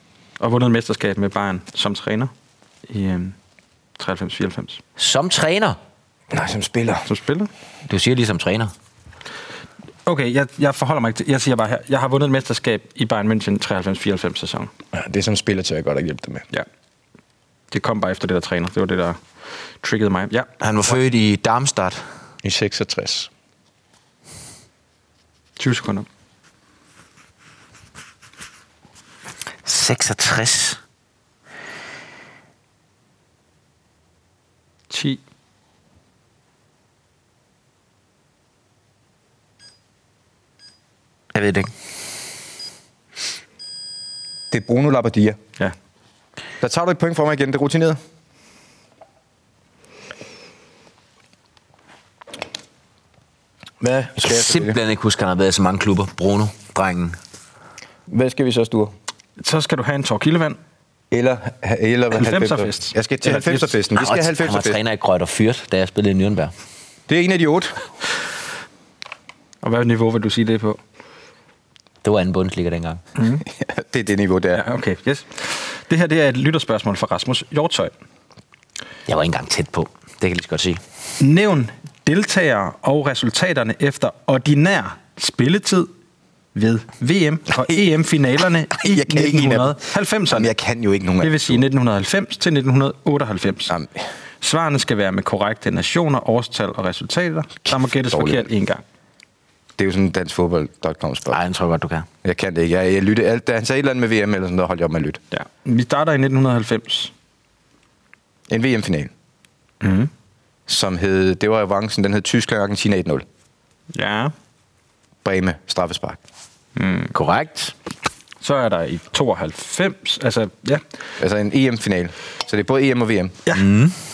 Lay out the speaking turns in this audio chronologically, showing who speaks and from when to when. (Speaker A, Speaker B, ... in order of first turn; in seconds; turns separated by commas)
Speaker A: 0.4-2.3, Speaker A: 2.9-3.3, Speaker A: 4.0-4.8, Speaker B: 5.0-5.8, Speaker C: 6.3-7.0, Speaker A: 7.1-7.5, Speaker B: 7.9-8.7, Speaker A: 10.1-14.7, Speaker C: 14.9-16.4, Speaker A: 17.7-19.2, Speaker A: 19.8-20.5, Speaker B: 20.6-22.1, Speaker C: 22.4-23.3, Speaker A: 25.6-26.1, Speaker B: 29.6-30.8, Speaker A: 34.9-35.2, Speaker B: 41.3-41.7, Speaker C: 44.5-45.4, Speaker C: 46.6-48.0, Speaker C: 53.8-54.8, Speaker B: 54.2-57.2, Speaker C: 58.1-58.9, Speaker A: 59.4-60.6, Speaker C: 61.1-64.8, Speaker A: 62.1-63.8, Speaker B: 63.9-66.5, Speaker C: 67.1-67.8, Speaker A: 69.6-70.8, Speaker B: 72.0-73.0, Speaker A: 73.2-73.4, Speaker C: 73.5-74.6, Speaker A: 74.5-77.9, Speaker B: 79.1-80.8, Speaker A: 81.2-85.9, Speaker A: 86.5-90.5, Speaker C: 88.8-91.6, Speaker A: 91.2-93.7, Speaker C: 93.7-94.0, Speaker A: 94.4-98.8, Speaker C: 97.7-98.5, Speaker C: 99.8-101.4, Speaker B: 101.3-102.1, Speaker C: 102.2-105.2, Speaker A: 105.3-107.1, Speaker C: 108.5-109.1, Speaker A: 109.8-110.1, Speaker C: 110.7-113.2, Speaker A: 113.9-114.3, Speaker C: 115.2-116.2, Speaker A: 116.8-117.1, Speaker B: 117.1-117.7, Speaker A: 118.4-120.8, Speaker C: 121.2-123.4, Speaker B: 123.5-124.0